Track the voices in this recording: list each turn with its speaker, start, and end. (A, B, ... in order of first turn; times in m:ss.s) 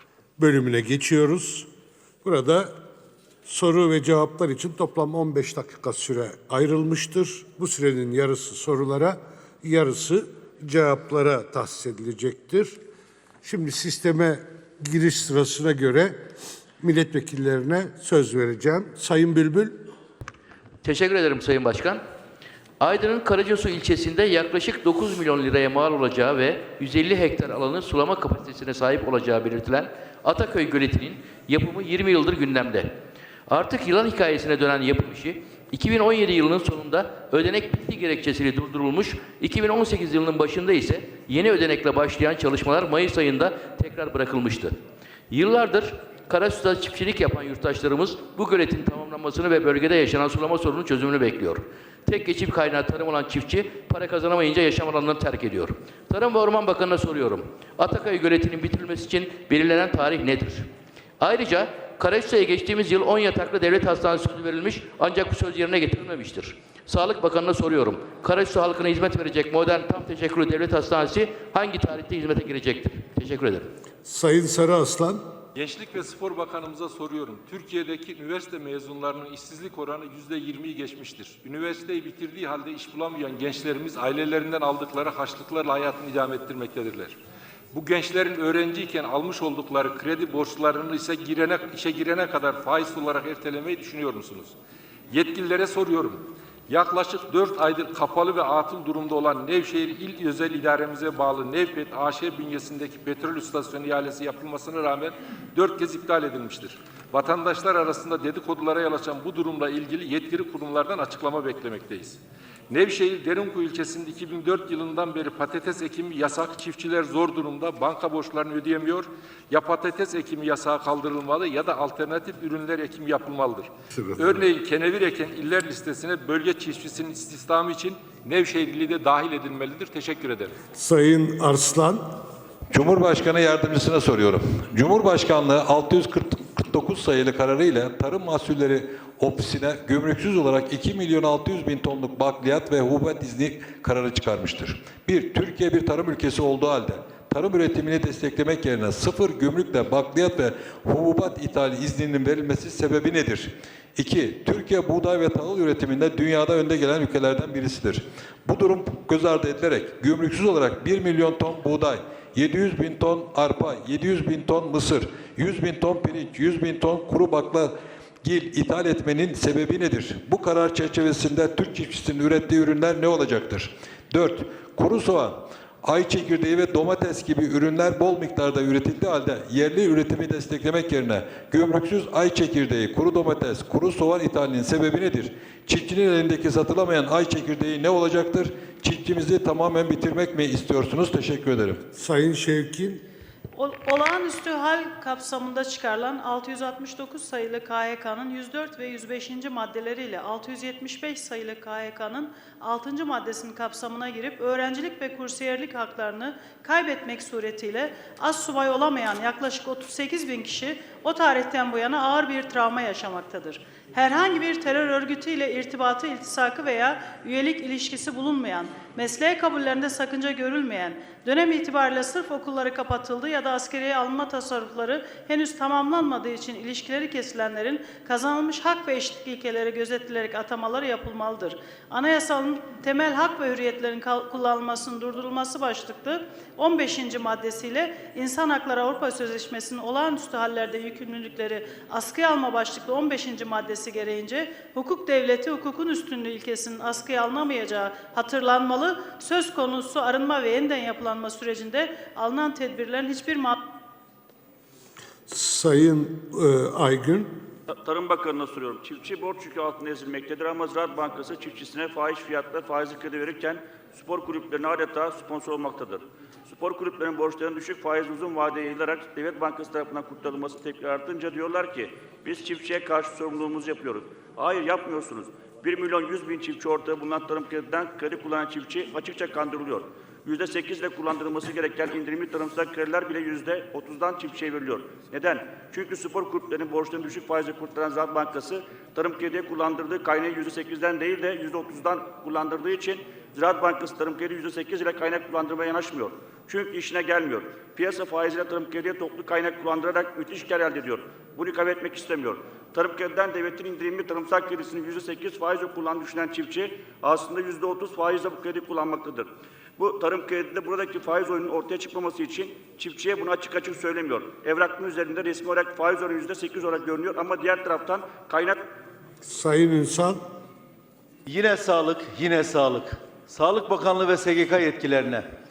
0:00.4-0:01.7 A
0:02.2-0:02.7 A
0:03.5-0:12.8 A
0:13.4-0:16.1 A
0:16.8-0:19.8 A
0:20.8-0:22.0 B
0:22.8-0:32.9 B
0:33.5-0:44.8 B
0:45.3-1:00.7 B
1:01.2-1:13.7 B
1:14.0-1:15.2 A
1:15.6-1:27.2 C
1:27.7-1:34.6 C
1:35.1-2:10.6 C
2:03.9-2:04.4 A
2:10.8-2:12.0 A
2:12.7-3:11.8 D
3:12.0-3:13.0 A
3:13.6-4:13.6 E
4:15.3-4:17.3 A
4:17.7-5:18.6 F
5:19.2-5:20.2 A
5:21.3-5:25.2 G